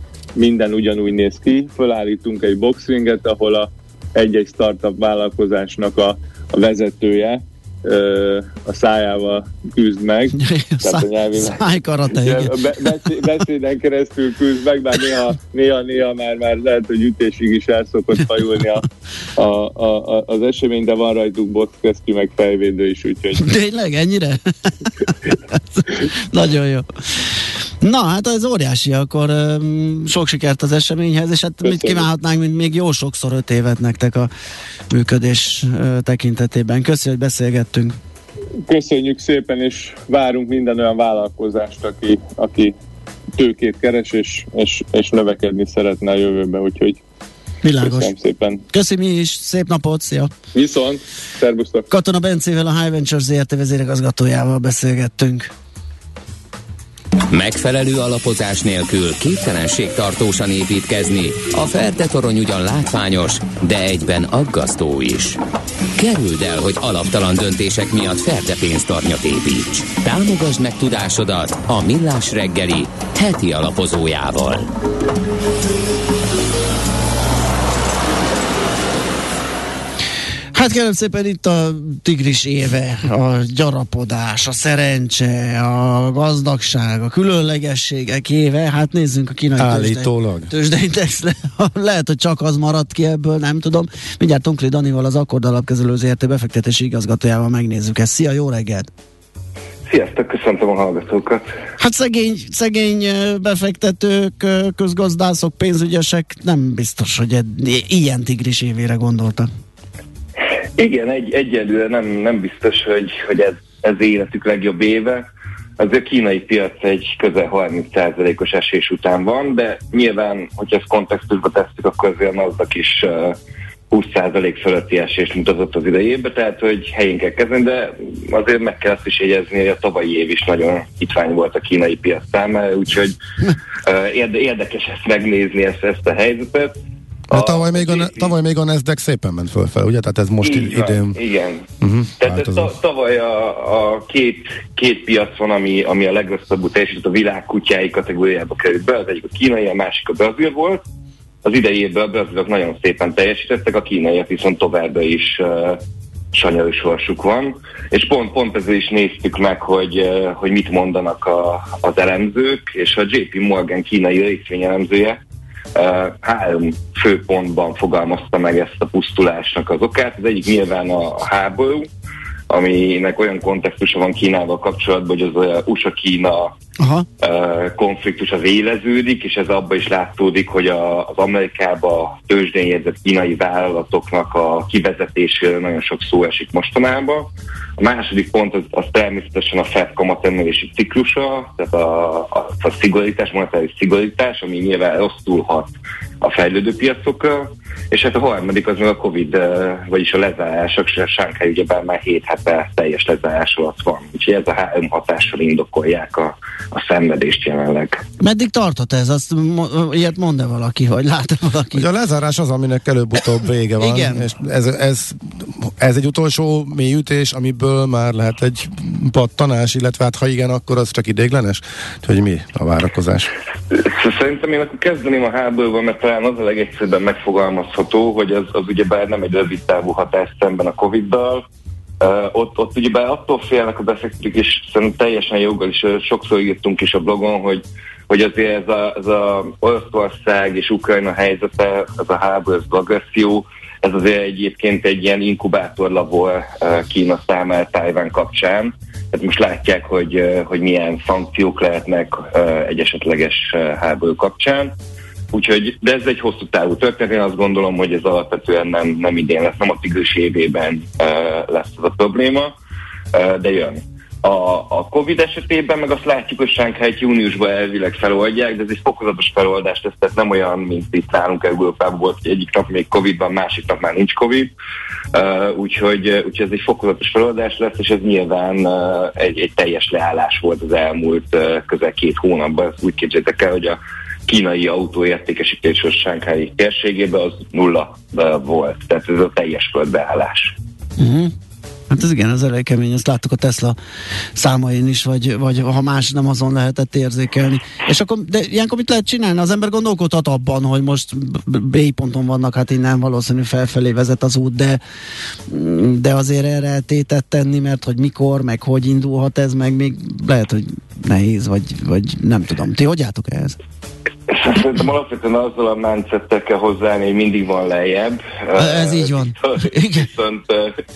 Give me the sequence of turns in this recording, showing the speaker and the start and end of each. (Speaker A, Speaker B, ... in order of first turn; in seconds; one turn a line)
Speaker A: 0.4-11.6
Speaker B: 10.3-12.5
Speaker A: 12.1-23.5
Speaker B: 23.4-26.9
Speaker B: 27.8-34.3
Speaker A: 31.6-32.1
Speaker B: 34.9-38.0
Speaker A: 38.7-42.7
Speaker A: 43.4-47.0
Speaker B: 47.6-48.1
Speaker A: 47.8-48.6
Speaker B: 48.7-50.3
Speaker A: 50.5-51.9
Speaker B: 51.9-55.5
Speaker C: 57.3-65.4
Speaker C: 66.0-74.7
Speaker B: 80.5-98.9
Speaker D: 89.6-90.5
Speaker E: 99.9-101.5
Speaker B: 101.8-109.5
Speaker E: 110.8-115.3
Speaker E: 115.8-123.4
Speaker E: 123.9-133.2
Speaker E: 133.8-136.7
Speaker E: 137.3-138.3
Speaker D: 137.3-141.2
Speaker E: 140.4-141.7
Speaker D: 141.8-142.7
Speaker E: 142.2-150.8
Speaker E: 151.4-155.8
Speaker E: 156.3-165.2
Speaker E: 165.7-171.9
Speaker E: 172.5-176.5
Speaker B: 176.8-177.1
Speaker E: 177.2-208.0
Speaker B: 208.2-211.8
Speaker D: 211.7-223.3
Speaker B: 213.8-214.2
Speaker E: 223.7-231.4
Speaker E: 232.0-254.7
Speaker E: 255.3-262.5
Speaker E: 263.1-274.5
Speaker E: 275.1-290.5
Speaker B: 291.0-291.3
Speaker B: 291.9-293.8
Speaker B: 294.4-304.8
Speaker B: 305.5-313.6
Speaker E: 314.3-320.7
Speaker B: 318.5-319.9